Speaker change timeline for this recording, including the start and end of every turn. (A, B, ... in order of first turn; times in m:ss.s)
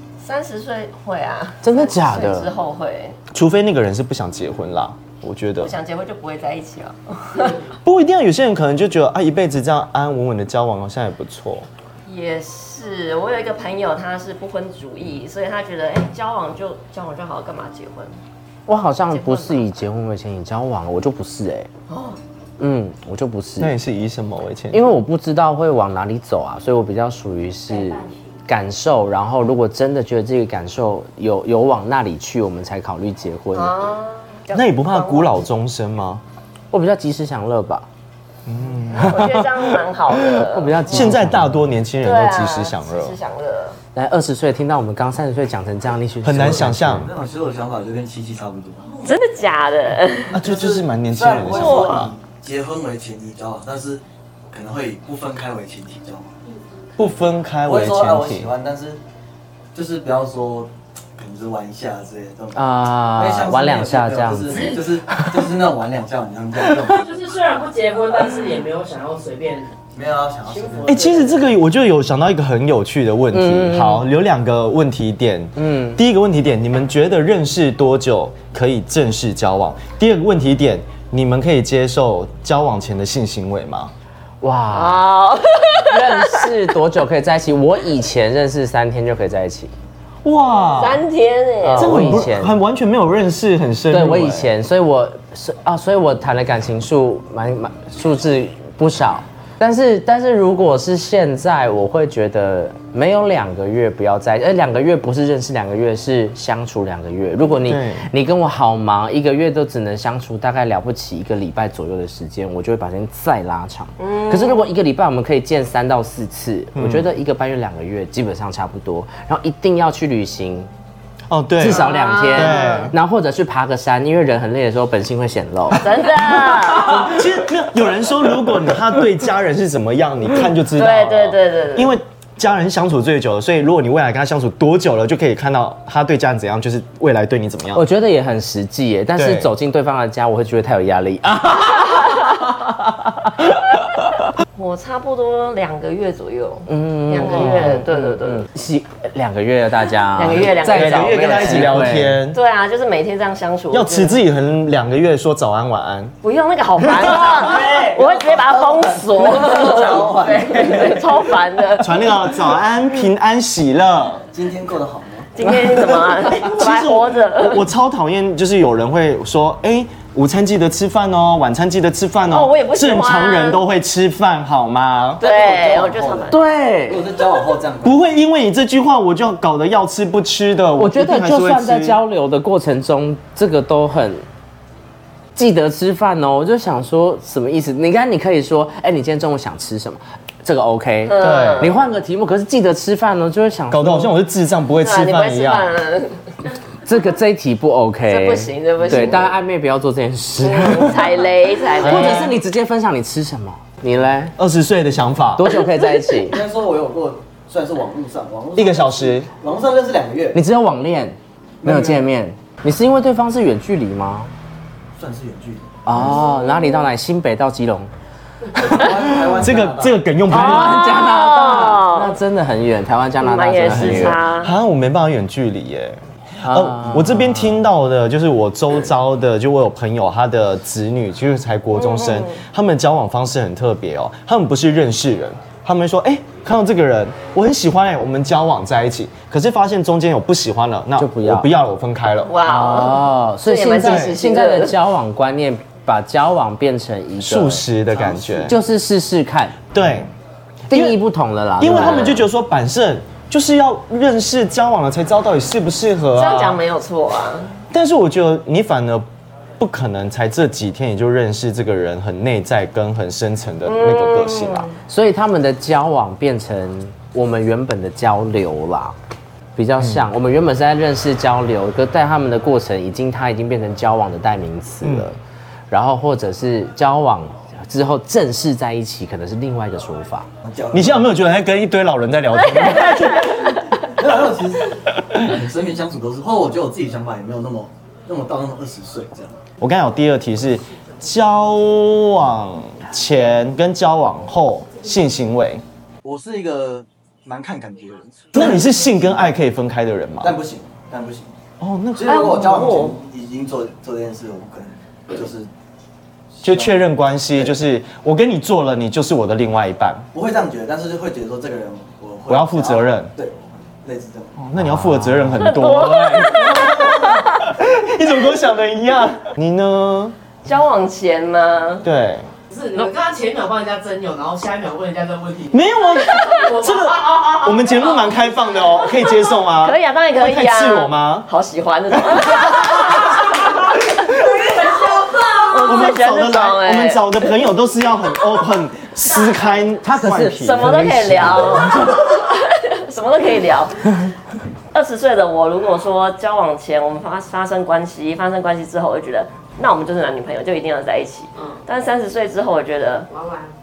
0:00.2-0:03.2 A
0:01.6-0:02.5 B
0:03.3-0:05.7 C
0:05.6-0:07.7 A
0:07.8-0:11.7 C
0:12.1-0:18.1 A
0:18.7-0:21.7 B
0:19.1-0:19.6 A
0:21.9-0:22.2 A
0:22.6-0:23.7 B
0:23.6-0:24.9 C
0:24.7-0:33.7 B
0:33.5-0:35.4 A
0:34.5-0:36.2 C
0:36.7-0:37.9 B
0:38.5-0:39.7 C
0:38.9-0:41.1 A
0:40.2-0:41.6 B
0:40.9-0:43.2 C
0:42.0-0:43.8 A
0:43.9-0:47.0 B
0:46.2-0:47.1 C
0:46.4-0:49.0 D
0:49.0-0:50.4 A
0:50.3-0:52.1 C
0:50.4-0:56.4 D
0:51.3-0:52.1 A
0:57.0-0:58.5 C
0:57.6-0:59.0 D
0:59.7-1:07.1 D
1:02.6-1:05.4 B
1:06.9-1:09.7 E
1:09.9-1:11.2 D
1:10.5-1:11.4 E
1:10.8-1:23.9 C
1:13.3-1:14.0 B
1:15.6-1:16.0 B
1:24.4-1:25.0 B
1:24.7-1:26.5 A
1:25.9-1:29.7 B
1:30.2-1:31.0 C
1:30.7-1:32.2 A
1:31.6-1:32.6 B
1:31.8-1:34.5 C
1:33.9-2:00.7 B
1:47.6-1:48.1 C
1:54.0-1:54.6 A
1:56.8-1:57.1 C
2:01.3-2:03.0 C
2:01.6-2:05.9 B
2:01.6-2:02.9 A
2:05.8-2:07.1 A
2:06.8-2:17.8 C
2:10.8-2:12.0 A
2:17.7-2:24.2 B
2:19.2-2:19.5 C
2:24.6-2:28.5 A
2:26.7-2:32.2 B
2:30.2-2:34.2 A
2:30.7-2:32.4 C
2:33.7-2:36.2 C
2:36.2-2:42.0 A
2:36.8-2:38.0 C
2:37.7-2:41.2 D
2:41.8-2:44.3 C
2:44.3-2:45.3 D
2:45.4-2:47.6 A
2:46.3-2:55.2 C
2:52.3-2:53.6 A
2:55.2-2:56.4 D
2:55.2-2:56.4 A
2:56.3-2:57.0 B
2:56.9-2:58.0 D
2:57.8-3:02.0 C
3:00.8-3:04.2 B
3:05.4-3:14.1 B
3:11.1-3:11.8 A
3:11.2-3:11.8 C
3:13.7-3:15.7 C
3:14.8-3:16.2 A
3:16.8-3:21.2 B
3:18.1-3:19.3 A
3:20.4-3:22.4 A
3:21.8-3:24.4 B
3:24.4-3:25.6 C
3:25.4-3:26.4 B
3:26.2-3:30.4 D
3:28.6-3:29.3 C
3:30.3-3:34.3 B
3:31.6-3:32.1 D
3:35.0-3:35.8 D
3:35.9-3:37.9 B
3:35.9-3:36.8 A
3:38.6-3:40.0 D
3:39.3-3:41.0 C
3:40.3-3:44.2 B
3:40.3-3:42.2 A
3:43.2-3:44.5 A
3:43.6-4:02.3 C
3:46.4-3:47.6 B
3:51.8-3:52.4 A
4:01.0-4:01.5 B
4:02.3-4:04.8 A
4:02.5-4:07.7 B
4:03.8-4:04.2 C
4:07.2-4:08.6 C
4:08.4-4:09.6 B
4:09.7-4:10.1 C
4:10.7-4:11.0 C
4:10.7-4:12.2 B
4:11.6-4:16.6 C
4:11.7-4:12.1 A
4:16.2-4:17.5 A
4:17.7-4:19.1 C
4:19.6-4:24.7 C
4:23.7-4:24.7 A
4:24.9-4:29.0 B
4:29.6-4:35.2 B
4:29.8-4:30.1 C
4:34.8-4:35.1 C
4:35.7-4:40.3 B
4:40.4-4:41.1 D
4:40.7-4:43.6 C
4:42.6-4:43.5 A
4:43.8-4:49.4 D
4:49.6-4:55.6 C
4:56.0-4:58.6 D
4:58.3-5:00.4 C
5:00.2-5:01.4 D
5:01.6-5:02.9 C
5:02.0-5:05.5 D
5:02.1-5:03.0 A
5:06.3-5:06.8 D
5:06.4-5:10.1 C
5:10.1-5:14.4 D
5:12.3-5:13.1 C
5:14.4-5:20.2 C
5:14.6-5:15.5 B
5:15.4-5:16.7 A
5:16.2-5:17.2 D
5:20.4-5:21.8 A
5:21.8-5:22.3 C
5:22.5-5:25.6 E
5:25.5-5:31.3 C
5:26.2-5:27.8 E
5:29.5-5:33.3 A
5:31.9-5:32.7 C
5:34.4-5:35.5 E
5:35.3-5:37.3 A
5:35.6-5:41.7 C
5:39.1-5:39.6 A
5:39.8-5:42.0 B
5:40.3-5:44.0 A
5:44.7-5:53.1 A
5:53.1-5:53.5 E